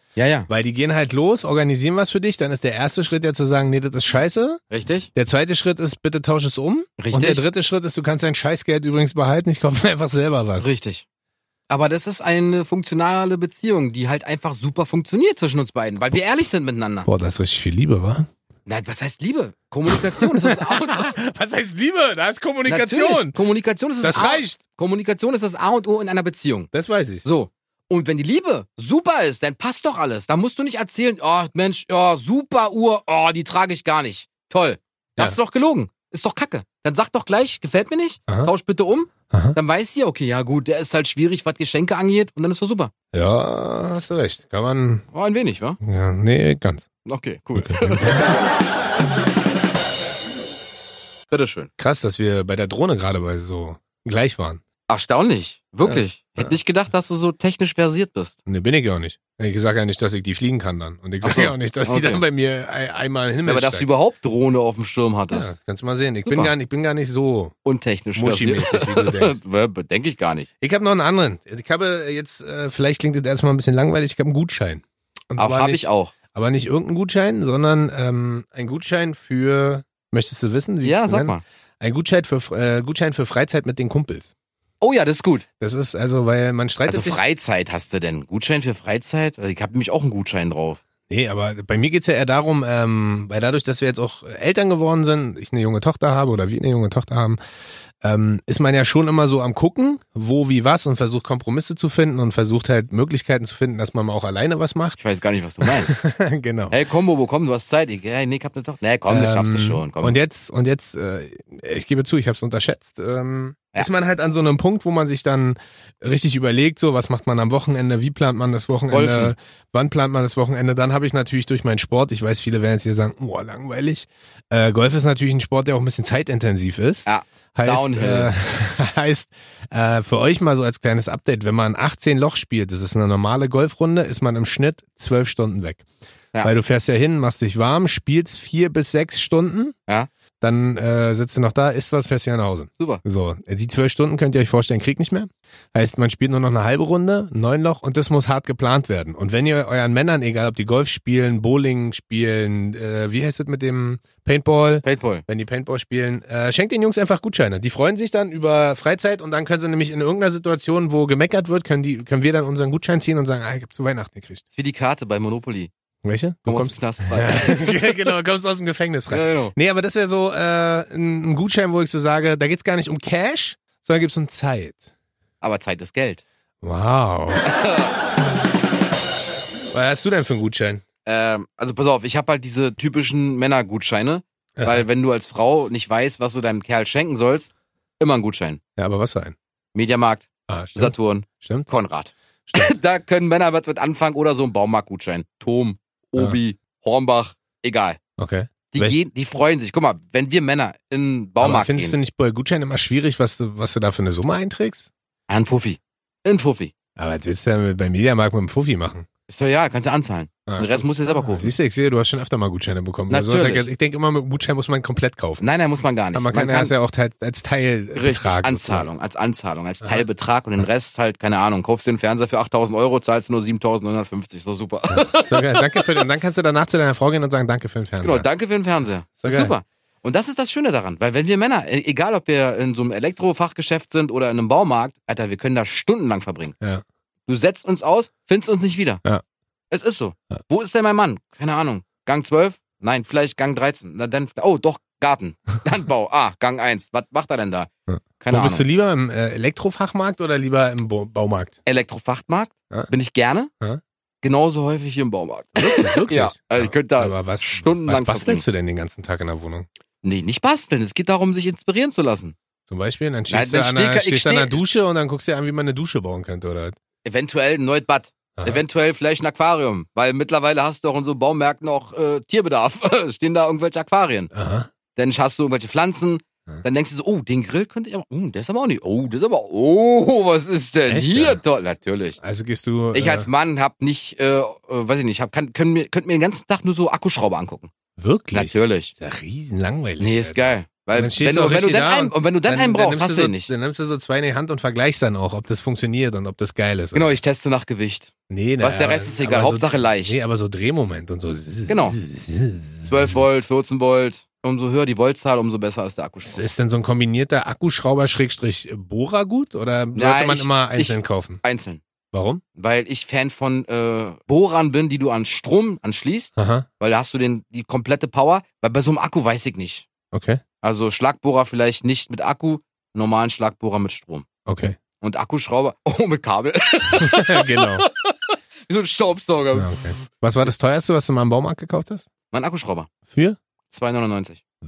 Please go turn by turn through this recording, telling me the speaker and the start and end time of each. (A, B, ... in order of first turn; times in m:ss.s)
0:00.2-0:00.5 A
0:00.5-0:04.6 B
0:04.7-0:05.1 A
0:05.2-0:10.7 B
0:07.0-0:07.4 A
0:10.6-0:11.0 A
0:11.7-0:17.1 A
0:17.1-0:18.3 B
0:18.7-0:21.2 A
0:19.9-0:23.4 B
0:22.7-0:26.7 A
0:24.0-0:24.6 B
0:26.7-0:27.2 B
0:27.2-0:42.9 A
0:39.3-0:39.6 B
0:43.1-0:45.0 B
0:45.1-0:45.8 A
0:45.8-0:46.9 B
0:47.0-0:48.4 A
0:47.6-0:48.3 B
0:51.3-0:51.7 A
0:51.8-0:54.6 B
0:54.9-0:58.4 A
0:55.8-0:56.6 B
0:58.5-1:03.9 B
1:01.2-1:02.2 A
1:03.4-1:05.5 A
1:05.3-1:07.5 B
1:06.2-1:06.5 A
1:07.6-1:10.5 A
1:08.2-1:09.4 B
1:10.6-1:24.3 B
1:15.4-1:16.1 A
1:20.8-1:21.4 A
1:24.8-1:25.5 A
1:25.6-1:27.2 B
1:26.9-1:30.8 A
1:31.1-1:37.4 B
1:38.0-1:45.0 B
1:45.0-1:46.0 A
1:45.6-1:46.8 B
1:46.7-1:50.2 A
1:49.1-2:15.8 B
1:58.9-1:59.3 A
2:07.1-2:08.3 A
2:16.4-2:19.8 B
2:20.4-2:44.4 B
2:34.8-2:35.2 A
2:44.6-2:45.7 A
2:46.0-2:54.9 B
2:46.5-2:48.0 A
2:49.1-2:49.6 A
2:55.4-2:56.2 A
2:56.6-2:57.4 B
2:57.4-2:57.9 A
2:59.7-3:00.8 B
3:01.1-3:08.6 A
3:04.6-3:04.8 B
3:08.8-3:09.4 B
3:09.7-3:18.0 A
3:10.5-3:11.7 B
3:12.5-3:12.7 B
3:18.2-3:19.0 B
3:18.7-3:22.0 A
3:21.4-3:24.9 B
3:25.3-3:26.7 A
3:27.0-3:29.1 B
3:29.3-3:31.5 A
3:30.5-3:35.4 B
3:33.1-3:33.7 A
3:35.4-3:36.7 A
3:36.1-3:38.9 B
3:38.0-3:46.0 A
3:44.9-3:48.3 B
3:48.0-3:56.6 A
3:49.2-3:49.5 B
3:57.3-3:59.0 A
3:59.7-4:08.6 A
4:07.9-4:11.6 B
4:11.7-4:13.5 A
4:14.2-4:18.4 A
4:15.6-4:19.7 B
4:20.0-4:22.4 A
4:22.7-4:26.8 B
4:23.3-4:24.6 A
4:27.0-4:34.3 A
4:28.4-4:28.6 B
4:34.3-4:34.7 B
4:35.0-4:42.2 A
4:40.9-4:41.4 B
4:42.2-4:43.3 B
4:42.9-4:47.7 A
4:48.0-4:57.1 B
4:48.3-4:48.9 A
4:50.0-4:53.5 A
4:56.9-5:00.2 A
4:58.3-5:03.2 B
5:01.7-5:02.0 A
5:02.9-5:06.4 A
5:06.2-5:11.4 B
5:10.0-5:11.8 A
5:12.1-5:12.4 B
5:12.6-5:19.9 A
5:16.4-5:16.7 B
5:20.1-5:20.4 B
5:20.6-5:24.3 A
5:24.5-5:24.8 B
5:25.0-5:30.1 A
5:27.0-5:27.9 B
5:29.5-5:32.1 B
5:32.3-5:32.9 A
5:33.1-5:33.4 B
5:33.7-5:34.4 A